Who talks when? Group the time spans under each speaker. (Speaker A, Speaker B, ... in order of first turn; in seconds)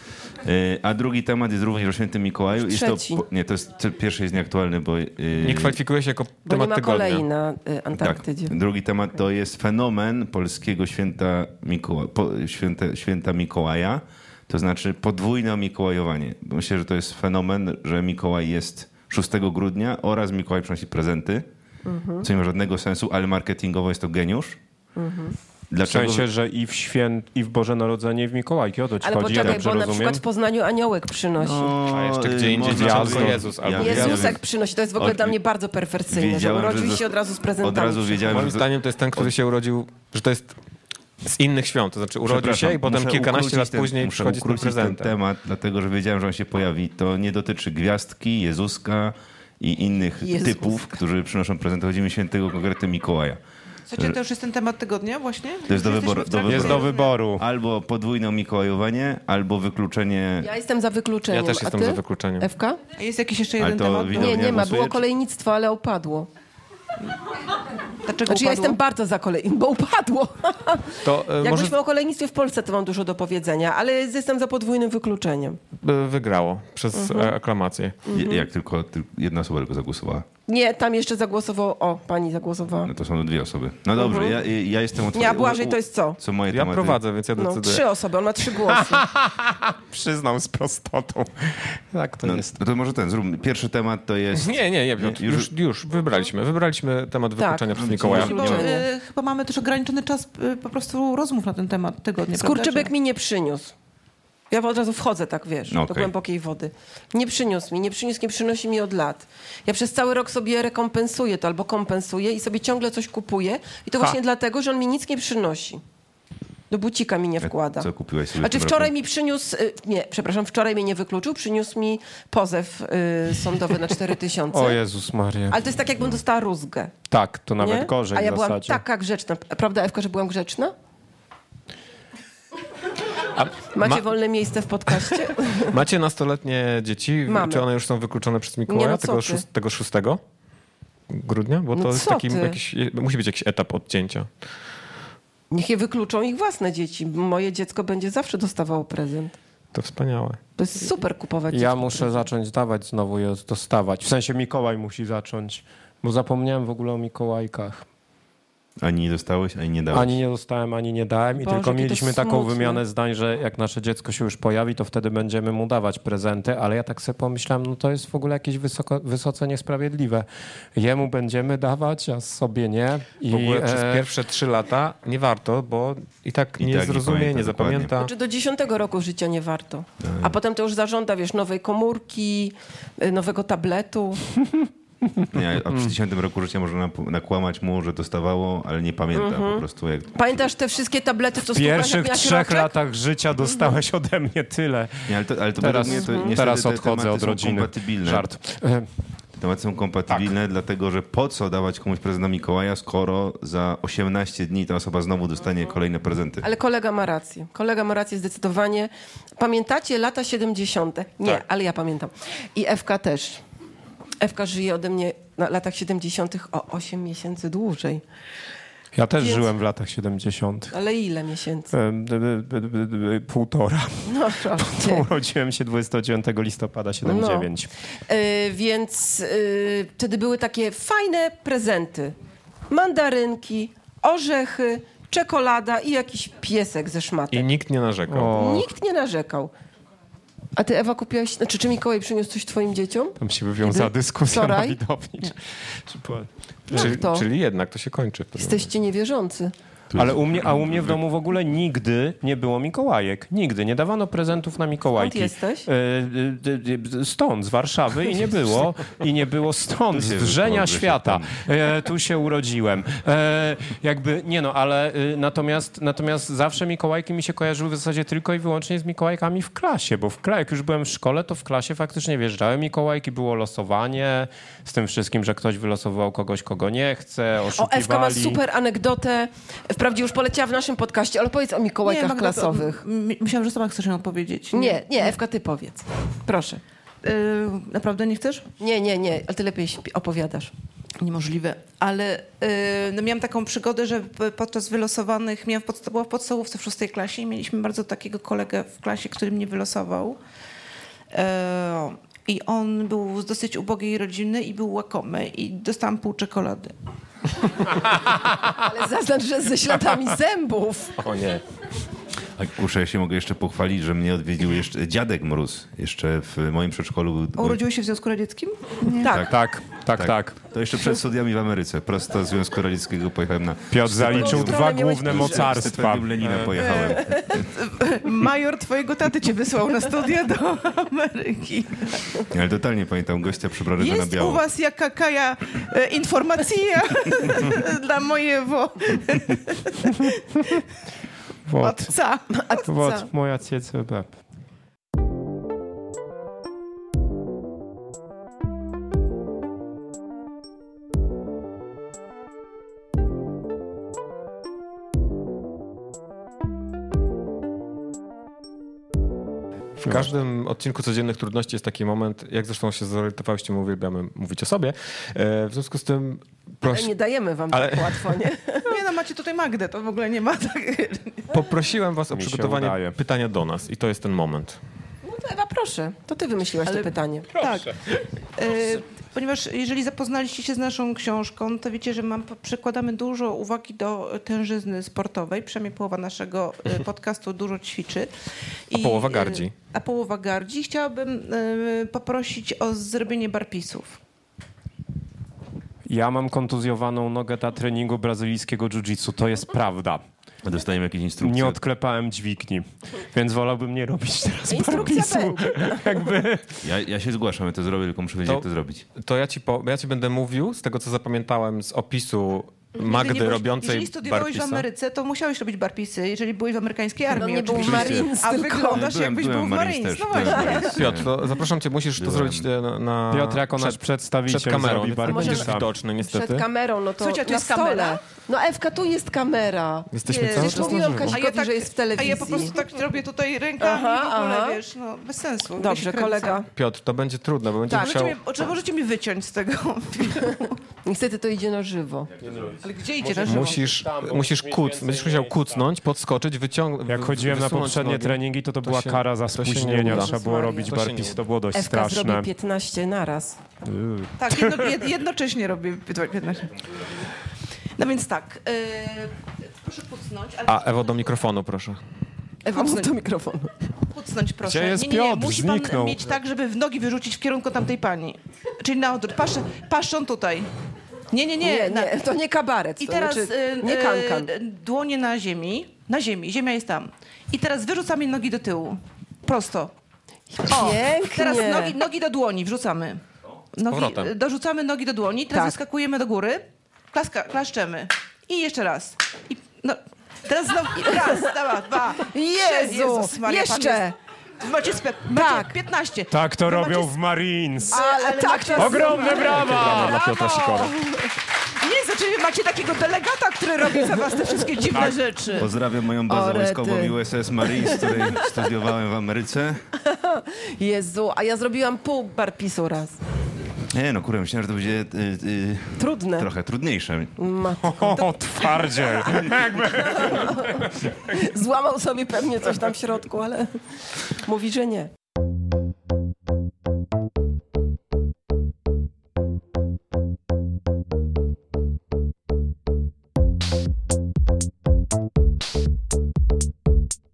Speaker A: 0.4-5.8, 8.0-21.5, 22.2-24.6, 25.7-26.3, 29.3-29.6, 31.4-34.4, 35.0-35.4, 36.1-37.1, 37.6-39.3, 42.3-53.4, 55.7-60.5, 63.6-65.0, 78.1-80.2, 82.9-87.0, 92.2-95.5, 97.8-98.7, 105.7-106.1, 117.4-118.9, 158.8-160.2, 176.6-177.9, 180.0-180.3, 185.3-190.4, 195.1-198.3, 199.4-206.4, 249.9-251.0, 259.9-261.3, 312.4-317.6, 319.0-327.5, 332.3-334.4, 400.4-401.6, 406.6-408.9, 417.5-418.2, 418.7-421.1, 422.0-422.5, 505.4-509.6, 513.7-517.1
Speaker B: 2.6-3.2, 6.5-8.5, 21.9-22.3, 25.0-25.4, 29.0-31.7, 33.8-38.4, 50.2-51.0, 60.4-62.8, 64.1-66.3, 68.3-75.6, 76.9-77.3, 78.1-78.5, 80.5-82.9, 84.0-84.4, 85.1-86.2, 87.4-89.0, 97.4-98.8, 102.3-103.7, 104.5-115.8, 116.7-124.8, 125.5-126.9, 127.6-130.7, 133.7-135.8, 137.3-137.7, 138.7-139.4, 141.8-142.6, 145.5-149.3, 150.6-152.3, 161.4-162.8, 178.0-184.3, 189.1-192.7, 195.8-196.4, 206.4-213.4, 214.2-218.0, 220.7-221.7, 224.1-225.1, 227.0-227.5, 228.1-232.2, 232.7-237.5, 238.3-239.5, 240.6-244.8, 246.7-247.3, 248.4-249.5, 255.0-255.7, 277.5-282.8, 284.5-286.6, 288.6-290.5, 308.5-311.0, 318.9-319.3, 324.1-325.7, 326.8-327.4, 342.3-343.1, 366.6-368.8, 375.0-377.3, 404.5-405.9, 417.1-418.9, 425.1-432.6, 433.6-434.6, 435.6-436.5, 440.9-442.1, 449.9-450.7, 451.5-453.4, 462.5-463.5, 471.4-474.3, 480.3-481.8, 490.9-491.3, 492.0-493.9, 495.1-495.5, 497.7-501.1, 506.1-507.0, 507.5-508.2, 509.8-513.0, 515.8-516.3, 517.2-518.2, 519.9-524.9
Speaker C: 5.4-7.2, 31.9-34.4, 38.3-40.5, 41.2-45.2, 61.3-62.5, 71.0-71.8, 75.8-78.0, 86.5-87.8, 94.3-98.7, 133.3-134.1, 135.0-140.2, 141.1-144.3, 149.7-150.4, 173.3-178.1, 237.3-238.6, 246.7-248.7, 311.0-311.4, 359.8-366.9, 367.5-368.2, 371.3-374.6, 388.7-389.5, 408.2-414.7, 420.8-426.5, 429.9-431.2, 436.5-438.2, 443.2-451.2, 460.5-461.8, 483.7-484.1, 499.4-500.8
Speaker D: 25.9-30.2, 32.6-34.0, 56.5-57.4, 88.5-92.5, 124.5-125.6, 127.1-128.8, 151.5-157.8, 159.9-174.1, 191.4-198.9, 218.9-220.8, 221.7-227.7, 238.1-238.7, 243.2-246.3, 249.9-278.4, 319.3-320.4, 323.7-326.6, 341.5-341.9, 342.7-344.2, 372.1-372.9, 377.4-377.6, 395.9-400.0, 401.2-406.6, 423.1-425.7, 442.2-445.5, 446.9-452.3, 453.6-454.7, 464.4-466.1, 496.1-497.8, 498.6-500.4, 517.6-520.7
Speaker E: 53.9-57.1, 63.0-64.5, 68.0-68.8, 98.0-102.9, 281.9-285.1, 287.0-288.5, 291.0-300.2, 301.1-306.8, 317.4-319.1, 326.5-332.2, 333.8-340.6, 341.6-342.3, 368.7-371.3, 376.7-388.1, 388.7-394.0, 412.8-421.1, 427.0-428.0, 430.1-436.4, 437.7-440.6, 442.6-443.6, 454.2-456.9, 457.8-460.9, 462.4-462.9, 463.9-470.5, 471.1-472.0, 472.8-479.7, 480.5-483.0, 483.5-496.9, 497.7-500.6, 501.6-505.5